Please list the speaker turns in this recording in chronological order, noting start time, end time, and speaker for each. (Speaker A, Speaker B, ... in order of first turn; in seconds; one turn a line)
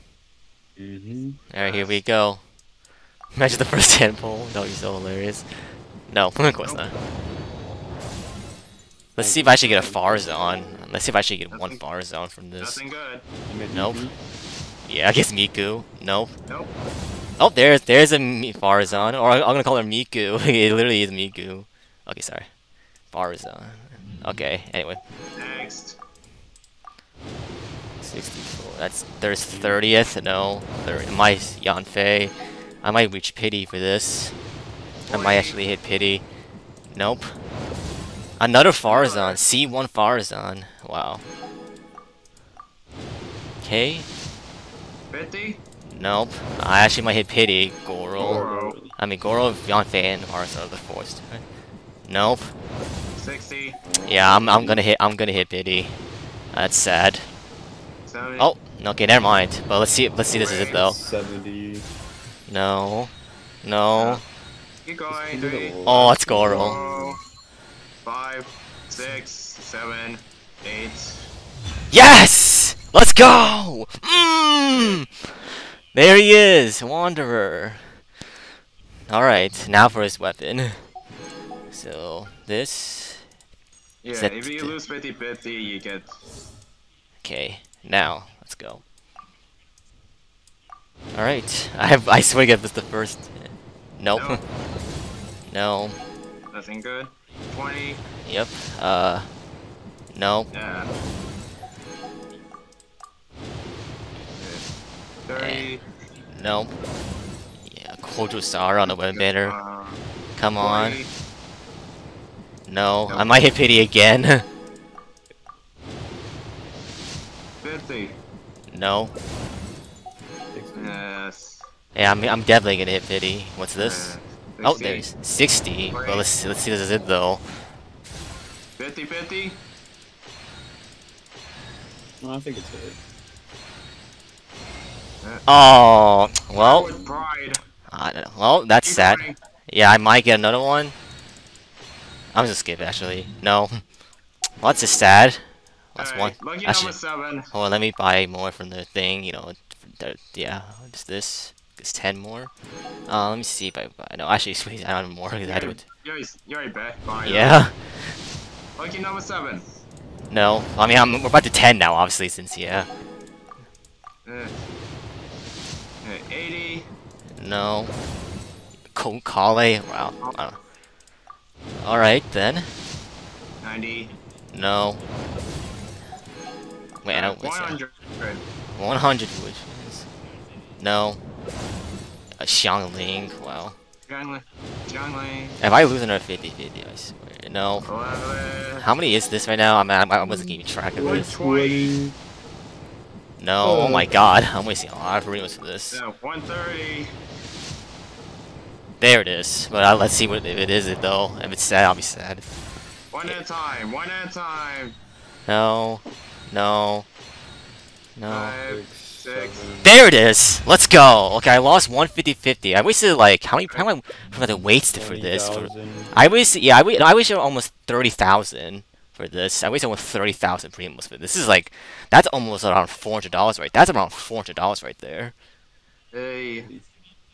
Speaker A: 0.8-1.4
Speaker B: 1.5-2.4
Speaker C: 1.6-2.0
Speaker B: 3.4-5.5
Speaker B: 6.1-6.9
Speaker C: 6.6-6.9
Speaker B: 9.2-12.8
Speaker A: 9.2-10.8
Speaker C: 11.5-11.8
Speaker C: 12.6-13.2
Speaker A: 13.4-14.1
Speaker B: 13.7-14.1
Speaker B: 14.8-16.3
Speaker B: 17.4-22.5
Speaker C: 18.9-19.2
Speaker B: 23.1-25.0
Speaker C: 25.4-26.0
Speaker B: 28.0-34.4
Speaker A: 29.5-29.9
Speaker C: 35.0-35.6
Speaker B: 35.0-36.2
Speaker B: 36.9-37.3
Speaker B: 38.4-41.2
Speaker C: 38.8-39.4
Speaker B: 43.6-44.1
Speaker C: 45.1-45.6
Speaker B: 45.9-48.4
Speaker C: 48.2-48.8
Speaker A: 48.2-48.9
Speaker B: 49.0-51.4
Speaker B: 52.0-52.5
Speaker C: 53.1-53.8
Speaker A: 53.8-54.8
Speaker B: 54.0-56.0
Speaker B: 56.5-57.3
Speaker C: 58.0-58.5
Speaker B: 58.4-61.0
Speaker C: 60.3-60.9
Speaker A: 60.7-61.9
Speaker B: 62.5-63.1
Speaker B: 63.6-64.2
Speaker C: 63.9-64.2
Speaker C: 64.8-67.2
Speaker A: 65.1-67.2
Speaker B: 65.8-66.8
Speaker C: 68.0-71.3
Speaker B: 71.9-75.3
Speaker C: 74.1-75.0
Speaker B: 75.9-77.8
Speaker B: 79.1-80.8
Speaker B: 81.7-83.2
Speaker C: 84.0-86.2
Speaker B: 84.1-84.8
Speaker B: 87.2-88.8
Speaker B: 91.1-94.4
Speaker C: 94.1-94.4
Speaker B: 95.5-96.0
Speaker C: 96.5-98.0
Speaker B: 98.2-99.3
Speaker B: 100.1-100.5
Speaker C: 100.5-100.9
Speaker C: 104.3-104.6
Speaker C: 105.3-105.8
Speaker B: 105.3-105.7
Speaker B: 106.3-106.7
Speaker B: 107.6-109.5
Speaker C: 108.9-110.0
Speaker B: 110.3-111.0
Speaker C: 110.6-111.1
Speaker B: 112.7-114.4
Speaker C: 113.1-113.5
Speaker C: 117.6-118.2
Speaker B: 118.7-119.1
Speaker A: 120.5-121.0
Speaker C: 120.7-121.6
Speaker B: 121.9-127.4
Speaker C: 123.8-125.1
Speaker C: 125.9-126.3
Speaker C: 128.8-129.6
Speaker A: 132.2-133.0
Speaker C: 135.2-135.5
Speaker B: 135.5-136.9
Speaker C: 136.5-137.6
Speaker A: 136.9-137.2
Speaker B: 137.9-140.9
Speaker C: 138.8-139.4
Speaker B: 142.3-143.7
Speaker B: 144.6-145.4
Speaker B: 145.9-147.0
Speaker C: 146.0-147.5
Speaker B: 147.5-152.5
Speaker B: 153.1-155.8
Speaker C: 155.4-157.6
Speaker B: 157.2-158.2
Speaker C: 158.8-159.7
Speaker B: 160.3-162.9
Speaker C: 164.2-164.6
Speaker C: 166.0-166.9
Speaker B: 167.3-167.9
Speaker B: 168.9-170.6
Speaker B: 171.8-172.7
Speaker C: 173.6-174.1
Speaker B: 174.5-175.0
Speaker B: 177.0-177.8
Speaker C: 177.1-178.4
Speaker B: 178.7-180.1
Speaker B: 180.8-181.2
Speaker B: 182.4-183.8
Speaker C: 184.1-185.6
Speaker B: 185.6-187.9
Speaker C: 187.8-188.9
Speaker B: 188.8-191.4
Speaker A: 190.2-192.2
Speaker C: 190.9-191.9
Speaker B: 193.4-196.0
Speaker A: 193.6-194.1
Speaker C: 195.9-197.1
Speaker B: 199.0-202.5
Speaker C: 203.1-204.9
Speaker B: 205.5-207.1
Speaker B: 208.2-208.6
Speaker C: 208.3-209.7
Speaker A: 208.7-210.0
Speaker B: 209.8-225.3
Speaker A: 214.9-216.1
Speaker C: 226.1-226.7
Speaker A: 226.6-226.9